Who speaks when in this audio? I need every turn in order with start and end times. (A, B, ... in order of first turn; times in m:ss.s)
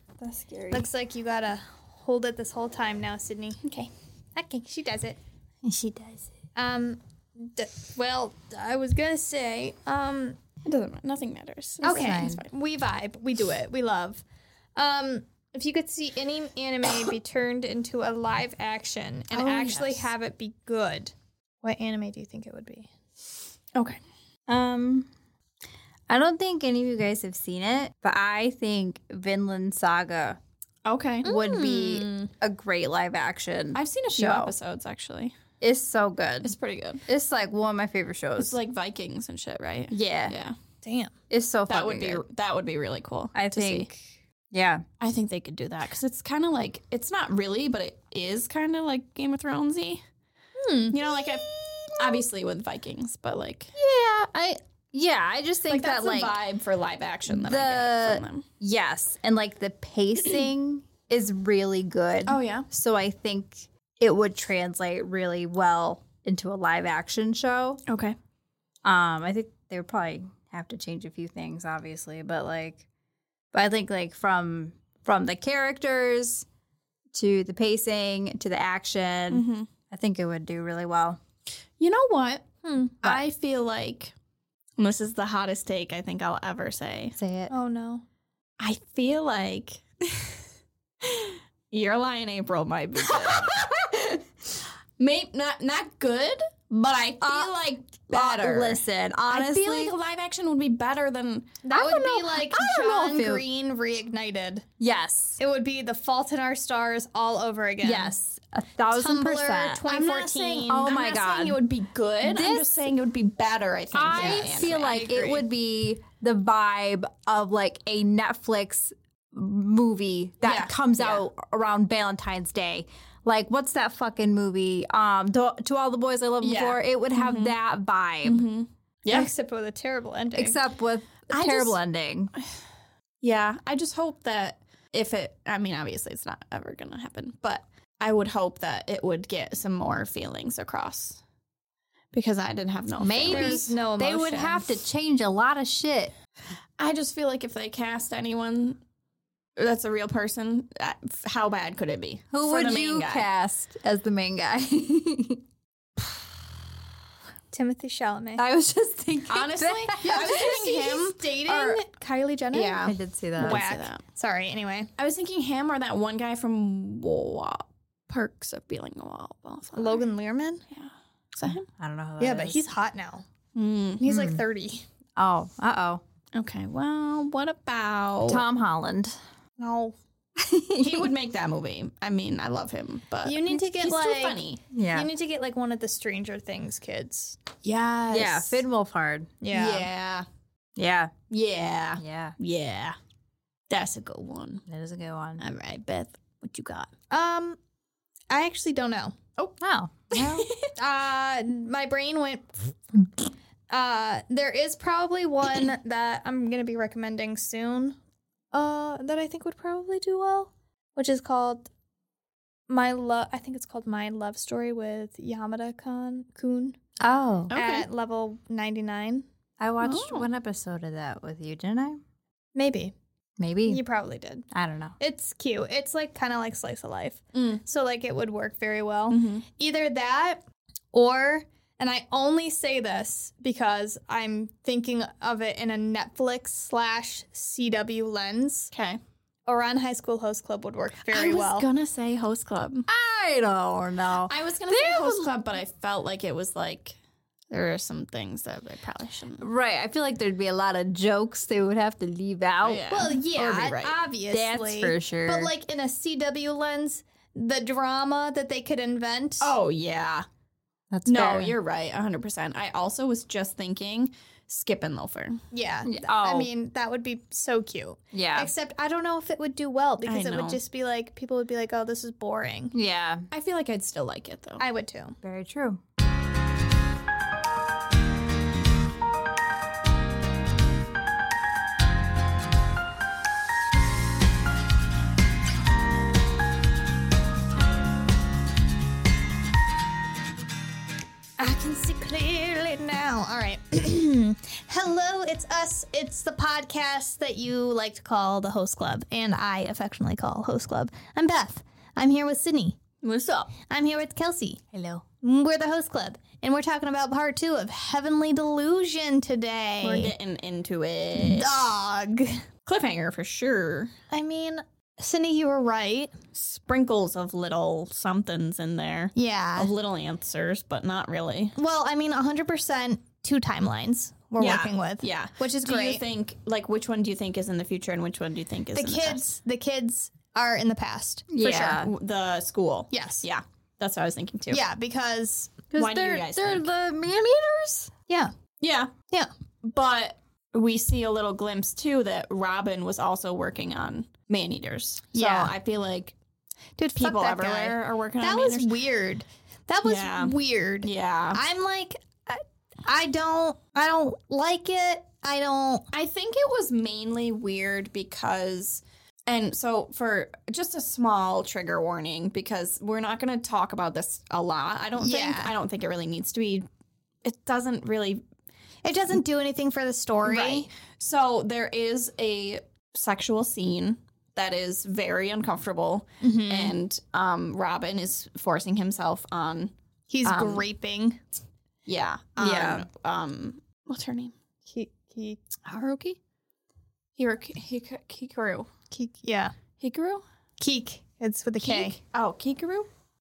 0:00.2-0:00.8 A
0:00.7-0:03.6 B
0:03.6-0:03.9 C
0:04.4-0:05.2 B
0:05.6-0:06.2 A
0:06.6-0:10.4 B
0:10.6-0:12.5 C
0:11.8-0:12.4 A
0:11.8-0:14.2 B
0:14.8-0:22.9 B
0:19.3-0:20.1 A
0:24.5-0:25.1 A
0:26.1-0:30.4 A
0:30.8-0:32.3 C
0:31.2-0:34.5 A
0:33.7-0:35.3 C
0:35.6-0:36.5 A
0:36.4-0:37.0 C
0:37.1-0:38.6 A
0:38.4-0:40.6 C
0:39.9-0:40.4 A
0:40.8-0:41.1 B
0:41.3-0:42.2 A
0:41.7-0:43.9 C
0:43.3-0:44.8 A
0:45.0-0:50.0 C
0:50.6-0:51.9 B
0:50.9-0:53.7 C
0:53.8-0:56.4 A
0:55.7-0:58.4 C
0:57.3-1:07.8 A
1:02.2-1:02.7 C
1:07.9-1:08.2 C
1:08.8-1:12.8 A
1:13.5-1:16.4 A
1:17.1-1:21.2 A
1:19.3-1:19.7 C
1:21.8-1:22.4 C
1:22.6-1:23.0 B
1:23.0-1:24.1 C
1:24.8-1:27.2 C
1:27.2-1:27.5 A
1:27.5-1:28.0 B
1:28.6-1:30.4 C
1:31.0-1:34.2 C
1:33.1-1:34.1 A
1:35.0-1:41.6 C
1:37.2-1:37.5 A
1:38.1-1:39.9 A
1:41.6-1:44.6 B
1:41.7-1:43.4 A
1:44.8-1:45.4 A
1:45.4-1:48.2 B
1:47.8-1:49.8 A
1:49.0-1:50.9 B
1:49.8-1:55.2 C
1:50.6-1:51.6 A
1:52.2-1:52.9 A
1:53.9-2:08.5 A
1:54.1-1:55.4 B
2:00.4-2:01.2 C
2:06.4-2:07.5 C
2:08.2-2:09.3 C
2:09.1-2:10.6 B
2:10.3-2:12.3 A
2:11.3-2:11.8 C
2:13.2-2:21.2 C
2:22.1-2:23.7 C
2:23.0-2:26.1 A
2:23.2-2:24.8 B
2:26.8-2:28.8 C
2:29.6-2:33.2 C
2:32.3-2:35.4 A
2:37.5-2:38.4 B
2:38.4-2:40.5 A
2:39.3-2:41.8 C
2:40.0-2:44.9 B
2:42.5-2:44.0 C
2:42.8-2:43.6 A
2:45.0-2:50.0 C
2:49.8-2:50.6 B
2:50.7-2:51.7 C
2:51.8-2:52.6 A
2:52.2-2:53.2 B
2:53.5-2:54.0 C
2:54.0-2:54.8 B
2:54.0-2:54.4 A
2:55.2-2:56.0 A
2:56.3-2:58.4 C
2:58.3-2:59.1 A
2:59.6-3:00.0 B
3:00.4-3:01.1 A
3:00.8-3:04.6 C
3:03.2-3:04.4 B
3:04.7-3:05.1 A
3:04.9-3:07.4 B
3:07.6-3:08.6 C
3:08.1-3:09.3 A
3:09.4-3:09.9 B
3:09.5-3:10.3 C
3:10.8-3:11.1 A
3:11.3-3:13.0 C
3:12.0-3:12.3 A
3:13.7-3:14.6 C
3:14.7-3:15.4 A
3:15.4-3:16.9 C
3:17.1-3:17.6 B
3:18.3-3:19.2 B
3:19.6-3:20.5 A
3:20.1-3:20.7 C
3:20.7-3:23.1 B
3:23.7-3:28.0 B
3:28.5-3:31.7 B
3:32.7-3:36.8 B
3:37.0-3:37.5 A
3:37.5-3:37.9 C
3:37.5-3:39.2 B
3:39.6-3:42.0 A
3:39.8-3:40.3 C
3:42.5-3:42.9 B
3:43.4-3:43.8 A
3:43.6-3:44.5 B
3:44.5-3:44.9 A
3:45.0-3:50.4 B
3:47.3-3:47.6 C
3:49.1-3:49.4 C
3:50.9-3:58.7 B
3:58.7-3:59.0 C
3:59.4-4:01.7 B
4:01.1-4:02.9 C
4:02.9-4:05.3 A
4:04.3-4:07.0 C
4:07.5-4:09.4 C
4:09.4-4:12.8 A
4:12.6-4:13.9 C
4:12.9-4:19.5 B
4:14.3-4:15.5 A
4:19.4-4:20.2 C
4:20.9-4:21.6 A
4:21.0-4:25.4 C
4:25.5-4:32.7 B
4:25.8-4:26.5 A
4:28.1-4:28.5 A
4:30.0-4:30.6 C
4:32.7-4:33.2 A
4:33.3-4:34.6 C
4:34.6-4:35.2 B
4:35.2-4:35.8 A
4:51.4-5:02.8 B
5:03.0-5:03.5 C
5:03.6-5:10.1 B
5:09.8-5:11.6 C
5:11.2-5:12.4 B
5:12.6-5:13.9 C
5:14.1-5:16.1 B
5:16.3-5:21.5 C
5:19.2-5:19.7 B
5:21.6-5:26.0 B
5:24.4-5:29.3 C
5:28.7-5:31.5 B
5:31.3-5:31.9 A
5:31.4-5:34.6 C
5:32.9-5:33.2 B
5:34.5-5:35.6 B
5:35.7-5:37.9 A
5:35.7-5:36.6 C
5:38.6-5:38.9 C
5:39.6-5:46.1 C
5:45.1-5:45.5 B
5:46.8-5:55.8 B
5:47.0-5:48.7 C
5:49.8-5:51.4 C
5:55.9-6:06.7 C
6:05.0-6:05.5 B
6:07.2-6:08.2 C
6:08.8-6:10.7 B
6:10.2-6:19.7 C
6:16.2-6:16.7 B
6:20.1-6:21.2 B
6:20.2-6:20.6 C
6:21.8-6:24.3 C
6:22.4-6:22.9 A
6:24.7-6:25.6 B
6:25.7-6:26.2 C
6:27.2-6:28.7 C
6:28.9-6:29.5 B
6:29.8-6:30.2 C
6:30.6-6:32.0 B
6:31.6-6:32.9 C